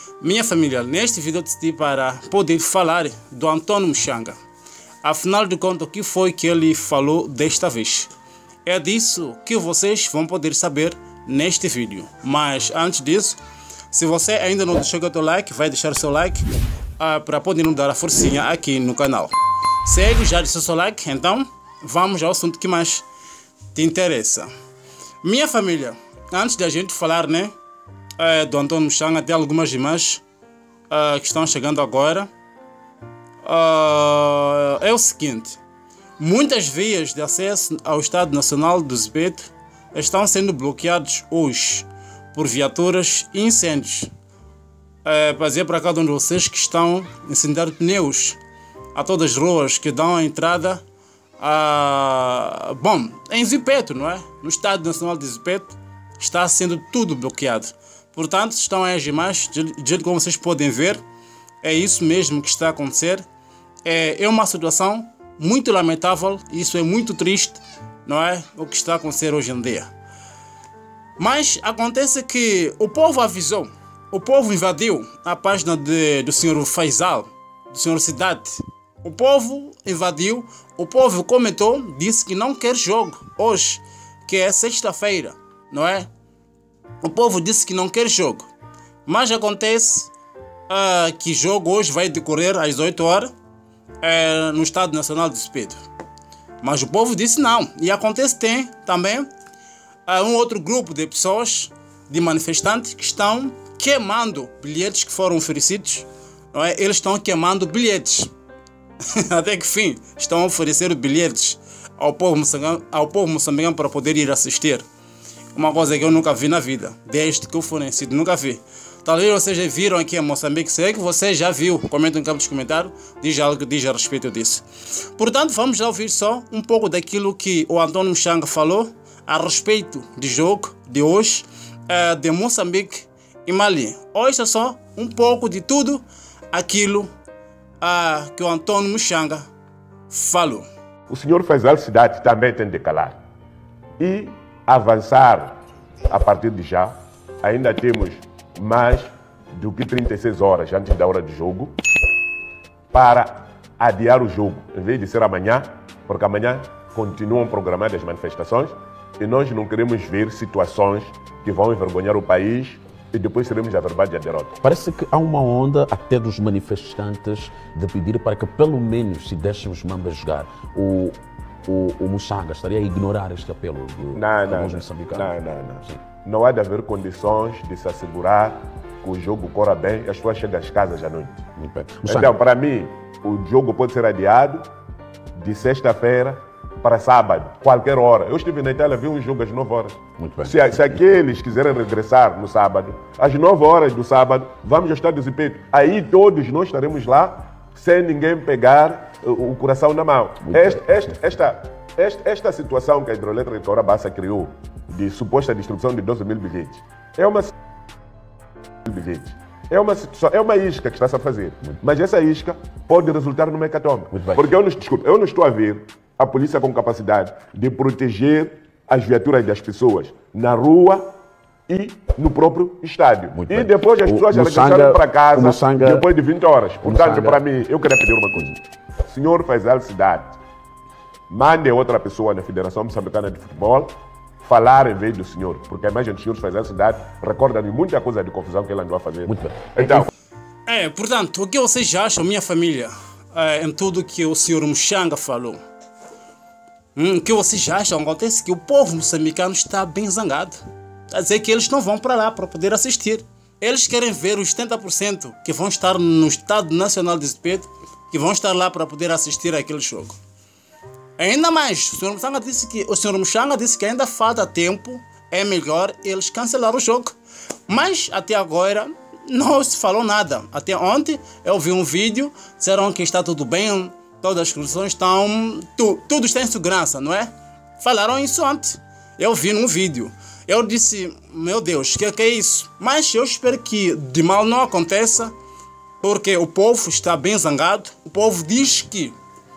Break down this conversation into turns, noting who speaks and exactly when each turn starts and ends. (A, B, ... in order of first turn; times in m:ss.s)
0:00.2-0:04.4 A
0:05.0-0:08.1 A
0:08.6-0:13.4 A
0:13.9-0:16.4 A
0:17.0-0:23.0 A
0:23.7-0:24.5 A
0:25.2-0:27.5 A
0:28.2-0:30.2 A
0:30.9-0:32.3 A
0:33.4-0:35.6 A
0:36.2-0:44.1 A
0:45.0-0:48.4 A
0:49.0-0:50.8 A
0:51.4-1:01.0 A
1:01.6-1:03.2 A
1:03.8-1:09.9 A
1:11.2-1:26.1 A
1:27.0-1:28.5 A
1:29.1-1:30.1 A
1:30.7-1:33.3 A
1:34.0-1:35.8 A
1:36.6-1:39.3 A
1:40.1-1:48.3 A
1:49.1-1:54.8 A
1:55.5-2:04.6 A
2:05.2-2:17.1 A
2:17.8-2:19.5 A
2:20.1-2:20.7 A
2:21.1-2:23.2 B
2:24.0-2:25.6 B
2:26.1-2:31.7 B
2:32.9-2:44.6 B
2:44.6-2:55.3 C
2:54.2-3:01.4 B
3:01.6-3:02.3 C
3:02.0-3:04.7 B
3:05.4-3:27.5 B
3:10.2-3:10.7 C
3:20.5-3:20.8 C
3:28.8-3:41.1 B
3:34.1-3:34.5 C
3:41.7-3:50.4 B
3:43.3-3:46.1 C
3:46.8-3:47.4 C
3:51.3-3:53.9 B
3:54.4-4:00.1 B
3:59.3-4:00.1 C
4:00.7-4:05.6 A
4:07.0-4:10.6 A
4:11.1-4:20.2 A
4:21.2-4:27.2 A
4:27.7-4:45.3 A
4:46.0-4:49.2 A